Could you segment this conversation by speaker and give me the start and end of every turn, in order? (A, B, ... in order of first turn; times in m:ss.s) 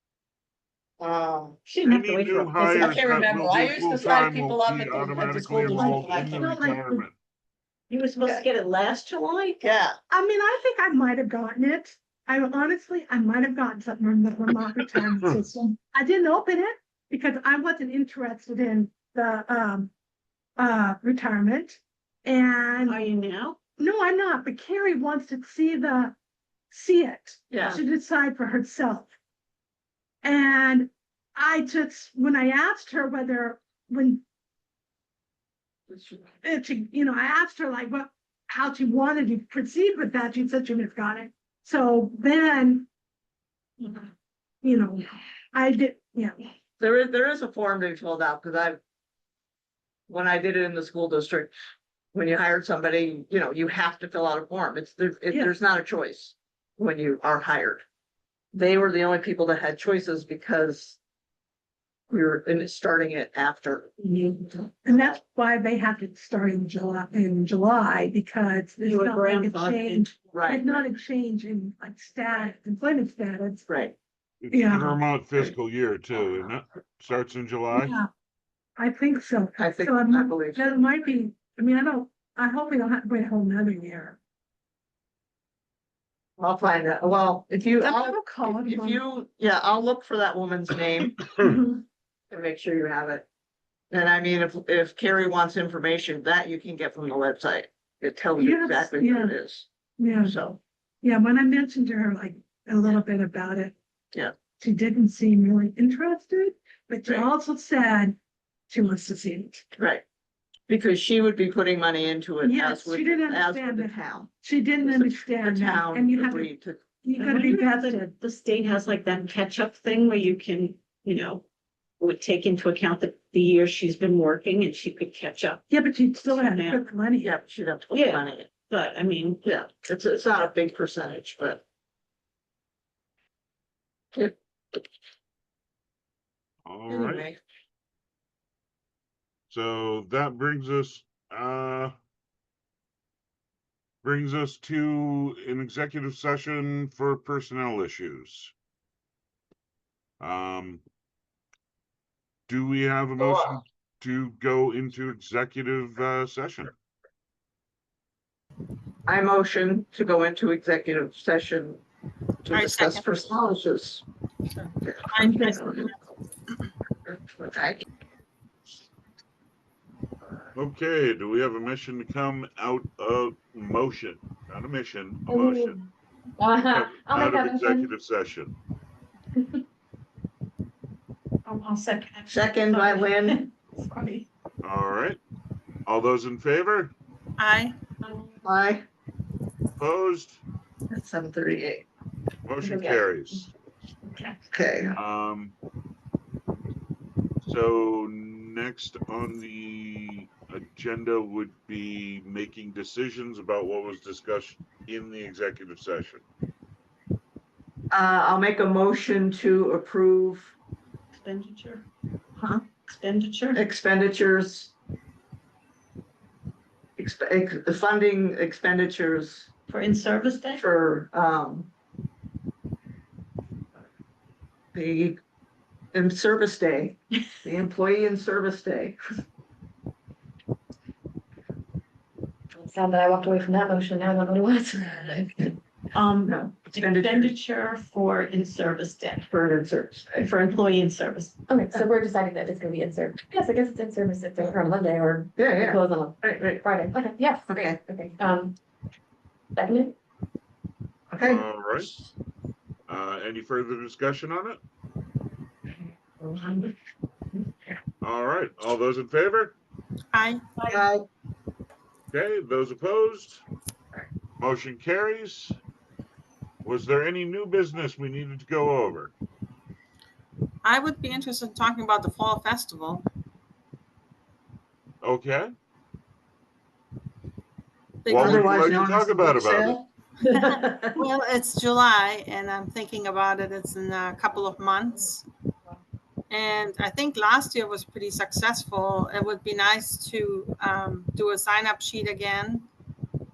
0:01.0-0:01.6 A
0:01.6-0:03.8 B
0:01.8-0:07.1 C
0:02.8-0:06.5 A
0:05.7-0:07.0 D
0:07.9-0:09.6 B
0:09.6-0:10.0 A
0:10.1-0:19.9 D
0:20.6-0:23.0 D
0:22.8-0:23.6 B
0:23.8-0:26.1 D
0:26.7-0:29.1 D
0:27.5-0:27.8 A
0:30.2-0:34.2 D
0:35.9-0:36.3 A
0:36.4-0:42.9 D
0:44.6-0:46.5 D
0:46.8-0:48.8 A
0:50.1-0:51.5 A
0:52.1-0:57.8 A
0:55.3-0:55.5 D
0:58.5-1:01.0 A
1:02.1-1:05.2 A
1:04.0-1:04.3 B
1:04.8-1:13.6 D
1:08.8-1:10.1 B
1:10.3-1:10.9 A
1:13.7-1:14.0 A
1:14.4-1:17.9 C
1:14.5-1:15.0 D
1:17.7-1:18.1 D
1:18.8-1:24.2 D
1:19.6-1:20.8 A
1:26.4-1:31.2 A
1:27.8-1:29.0 D
1:31.4-1:31.8 D
1:32.3-1:33.2 A
1:33.9-1:39.7 A
1:38.4-1:39.4 D
1:40.0-1:40.4 D
1:40.2-1:40.6 A
1:41.0-1:43.8 D
1:44.6-1:48.2 D
1:47.0-1:47.3 A
1:48.7-1:49.6 D
1:49.8-1:50.0 A
1:50.7-1:57.0 A
1:52.4-1:56.5 D
1:57.0-1:58.1 D
1:57.2-2:01.4 B
2:02.0-2:05.6 B
2:05.7-2:07.4 D
2:06.2-2:06.8 B
2:07.2-2:08.5 A
2:07.9-2:09.4 B
2:09.4-2:11.6 A
2:14.1-2:14.8 A
2:16.6-2:17.3 C
2:16.9-2:17.4 A
2:19.5-2:22.0 C
2:24.0-2:28.5 C
2:30.2-2:30.8 C
2:32.5-2:36.7 C
2:33.2-2:33.6 A
2:39.1-2:41.8 A
2:42.4-2:44.0 A
2:42.5-2:43.0 E
2:44.5-2:45.9 E
2:44.8-2:45.9 A
2:47.1-2:47.8 A
2:50.5-2:55.8 C
2:55.3-2:55.8 F
2:56.4-2:57.9 F
2:56.5-2:58.5 C
3:01.4-3:04.2 F
3:02.3-3:03.5 A
3:04.6-3:05.2 C
3:05.8-3:06.9 C
3:07.4-3:07.7 E
3:08.0-3:08.4 F
3:08.4-3:08.8 A
3:09.8-3:10.4 C
3:10.9-3:11.8 A
3:12.4-3:13.5 C
3:12.6-3:13.4 F
3:14.0-3:14.4 F
3:14.5-3:14.9 A
3:14.9-3:15.5 C
3:17.4-3:26.2 C
3:27.9-3:30.5 A
3:31.1-3:31.8 B
3:32.4-3:32.6 A
3:32.8-3:33.6 B
3:33.5-3:34.7 A
3:37.0-3:39.5 A
3:39.7-3:40.6 B
3:40.6-3:41.7 A
3:44.7-3:45.2 A
3:45.9-3:49.0 A
3:52.5-3:55.6 F
3:55.9-3:59.3 B
3:56.2-3:57.3 A
3:59.3-4:00.2 A
4:00.1-4:01.4 B
4:01.5-4:08.6 F
4:05.4-4:06.6 A
4:07.5-4:07.8 A
4:09.6-4:09.9 F
4:11.1-4:11.4 A
4:11.2-4:11.9 C
4:12.9-4:14.6 C
4:16.4-4:16.7 F
4:18.0-4:19.5 C
4:20.1-4:20.4 E
4:20.7-4:21.0 A
4:22.1-4:23.4 C
4:24.4-4:25.6 C
4:26.6-4:29.1 C
4:30.6-4:33.0 E
4:35.0-4:35.5 C
4:38.0-4:38.6 E
4:38.1-4:39.8 C
4:38.1-4:41.0 A
4:41.0-4:45.2 E
4:46.3-4:52.7 E